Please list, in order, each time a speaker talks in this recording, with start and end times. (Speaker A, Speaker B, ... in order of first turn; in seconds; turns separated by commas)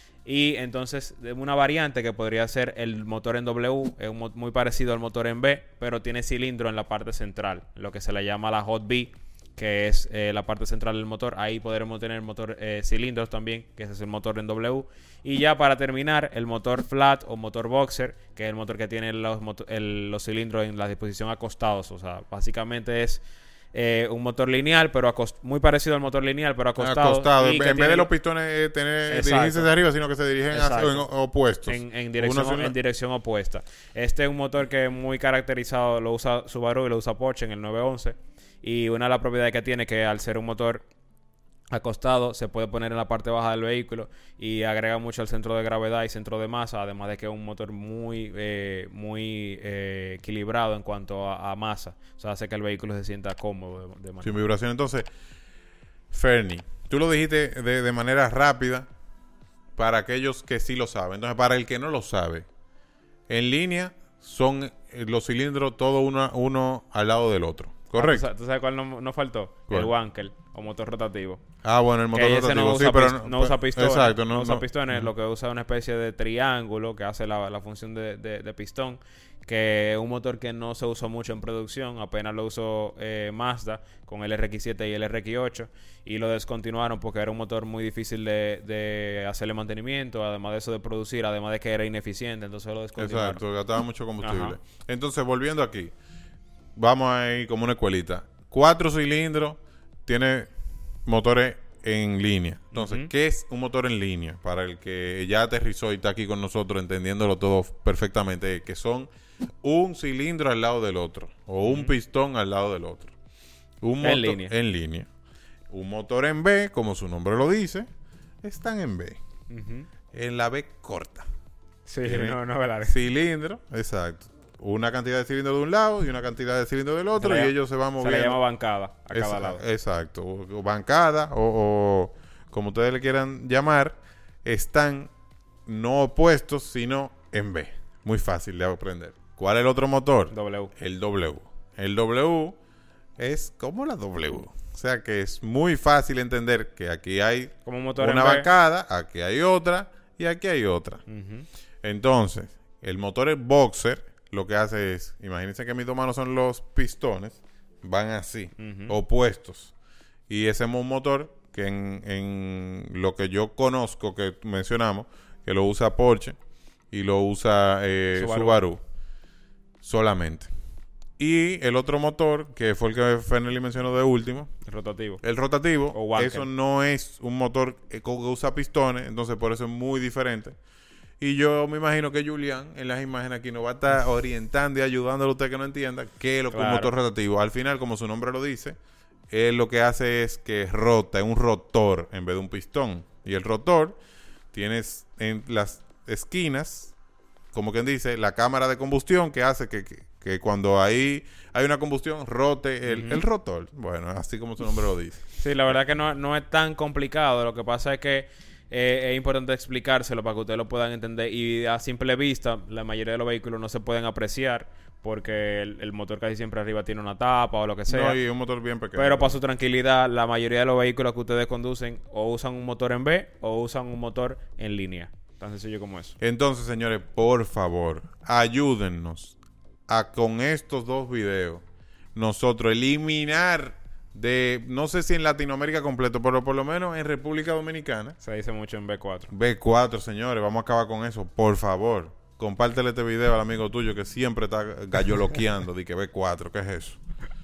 Speaker A: 0.2-28.1, Speaker B: 26.8-32.8, Speaker A: 29.1-29.7, Speaker A: 30.5-31.1, Speaker A: 31.6-40.9, Speaker A: 41.7-54.4, Speaker B: 54.2-55.1, Speaker B: 56.1-58.9, Speaker B: 59.8-62.5, Speaker B: 63.3-68.3, Speaker A: 68.0-71.4, Speaker B: 71.6-75.1, Speaker A: 72.1-93.4, Speaker B: 93.0-95.9, Speaker A: 94.2-94.6, Speaker B: 96.8-100.5, Speaker B: 101.1-109.1, Speaker A: 102.7-103.1, Speaker B: 109.6-113.1, Speaker A: 111.6-112.0, Speaker B: 113.8-115.1, Speaker A: 114.0-114.5, Speaker B: 115.7-117.9, Speaker B: 118.4-119.2, Speaker A: 119.5-119.9, Speaker B: 120.1-121.3, Speaker A: 121.9-123.0, Speaker B: 122.0-128.4, Speaker A: 127.2-129.6, Speaker B: 129.1-135.1, Speaker B: 135.7-142.6, Speaker A: 140.3-140.7, Speaker B: 143.2-151.0, Speaker A: 147.7-148.5, Speaker A: 151.1-151.5, Speaker B: 151.8-159.7, Speaker A: 158.6-159.0, Speaker B: 160.3-166.4, Speaker B: 166.9-168.8, Speaker A: 168.1-168.6, Speaker B: 169.8-170.5, Speaker B: 171.2-174.5, Speaker A: 174.6-175.2, Speaker B: 175.2-180.6, Speaker A: 175.9-176.5, Speaker B: 181.2-188.8, Speaker A: 186.5-186.9, Speaker B: 189.3-194.0, Speaker B: 194.5-196.9, Speaker B: 197.5-205.2, Speaker A: 202.8-203.2, Speaker A: 205.3-218.2, Speaker B: 217.9-219.4, Speaker A: 218.9-226.2, Speaker B: 226.2-229.4, Speaker B: 229.9-231.6, Speaker B: 232.2-238.2, Speaker A: 238.2-239.3, Speaker B: 239.3-247.0